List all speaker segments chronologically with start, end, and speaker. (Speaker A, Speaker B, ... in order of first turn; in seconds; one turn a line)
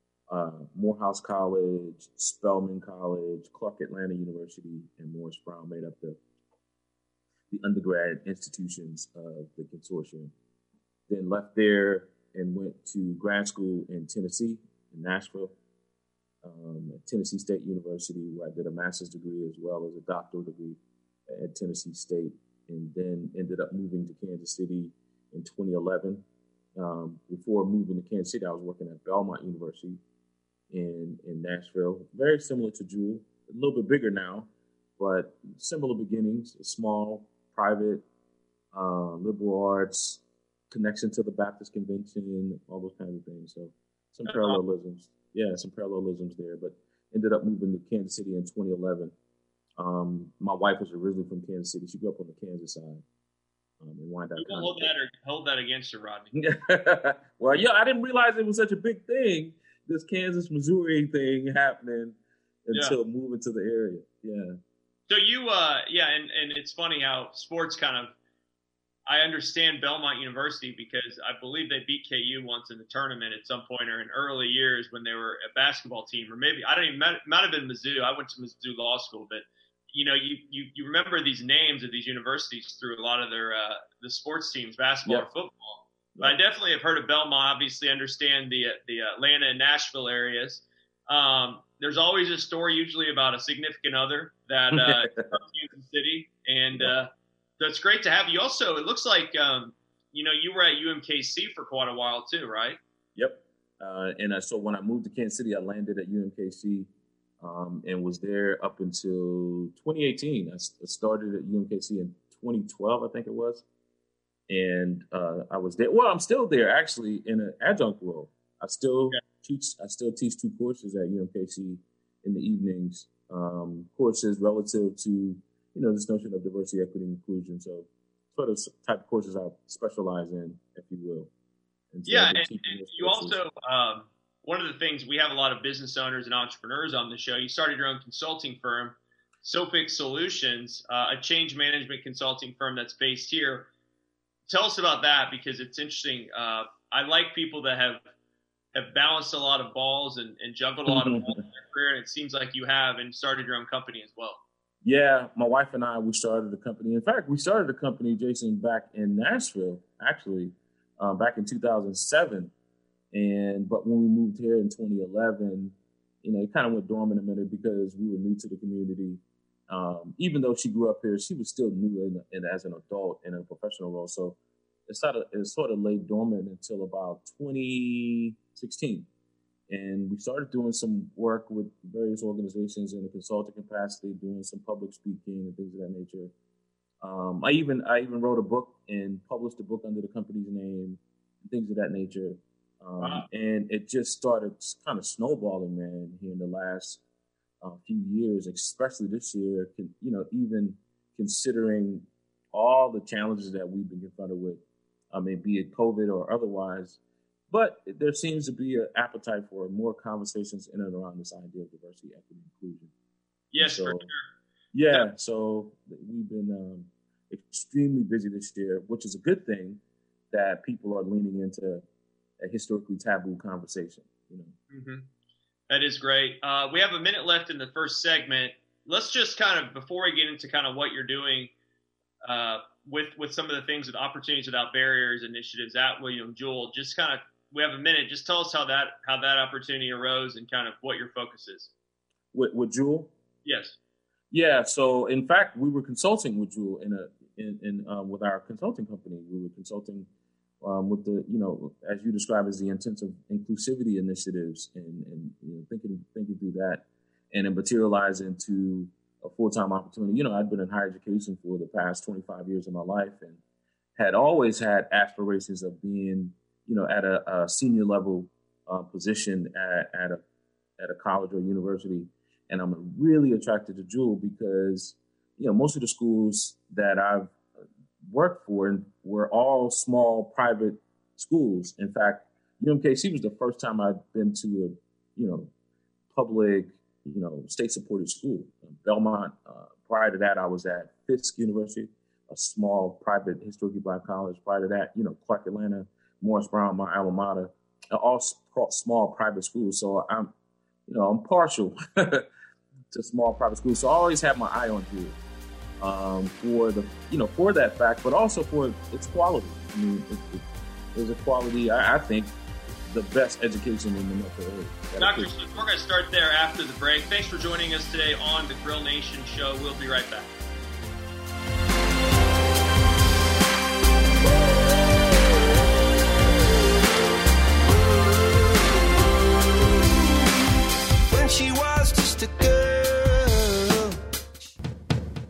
Speaker A: 0.3-6.2
Speaker A: 7.5-10.3
Speaker A: 11.1-15.6
Speaker A: 16.4-26.2
Speaker A: 26.8-30.0
Speaker A: 30.7-38.0
Speaker A: 38.7-49.1
Speaker B: 44.3-44.6
Speaker A: 49.8-53.0
Speaker A: 53.8-54.9
Speaker B: 54.4-56.3
Speaker A: 56.3-64.6
Speaker B: 65.1-68.1
Speaker B: 69.1-102.8
Speaker A: 94.7-95.3
Speaker A: 103.2-106.9
Speaker A: 107.4-113.6
Speaker A: 114.5-131.3
Speaker A: 131.9-133.4
Speaker B: 132.1-143.7
Speaker B: 144.5-148.1
Speaker B: 148.7-154.4
Speaker A: 150.9-151.4
Speaker A: 154.8-162.5
Speaker A: 163.1-179.1
Speaker A: 179.7-186.3
Speaker A: 187.0-197.0
Speaker B: 193.0-193.3
Speaker A: 197.6-207.0
Speaker A: 207.5-212.9
Speaker B: 213.5-214.2
Speaker A: 213.6-214.1
Speaker A: 214.7-221.8
Speaker A: 222.4-224.5
Speaker B: 224.7-225.1
Speaker B: 225.7-231.5
Speaker B: 232.2-241.7
Speaker A: 242.3-243.1
Speaker B: 243.4-243.8
Speaker A: 244.3-250.1
Speaker A: 250.6-263.4
Speaker A: 263.9-270.2
Speaker A: 270.8-277.4
Speaker A: 278.0-285.5
Speaker A: 286.1-300.3
Speaker A: 300.9-302.3
Speaker A: 302.9-305.2
Speaker A: 305.8-312.3
Speaker A: 312.9-315.3
Speaker B: 315.0-320.3
Speaker C: 327.7-328.8
Speaker C: 331.1-334.0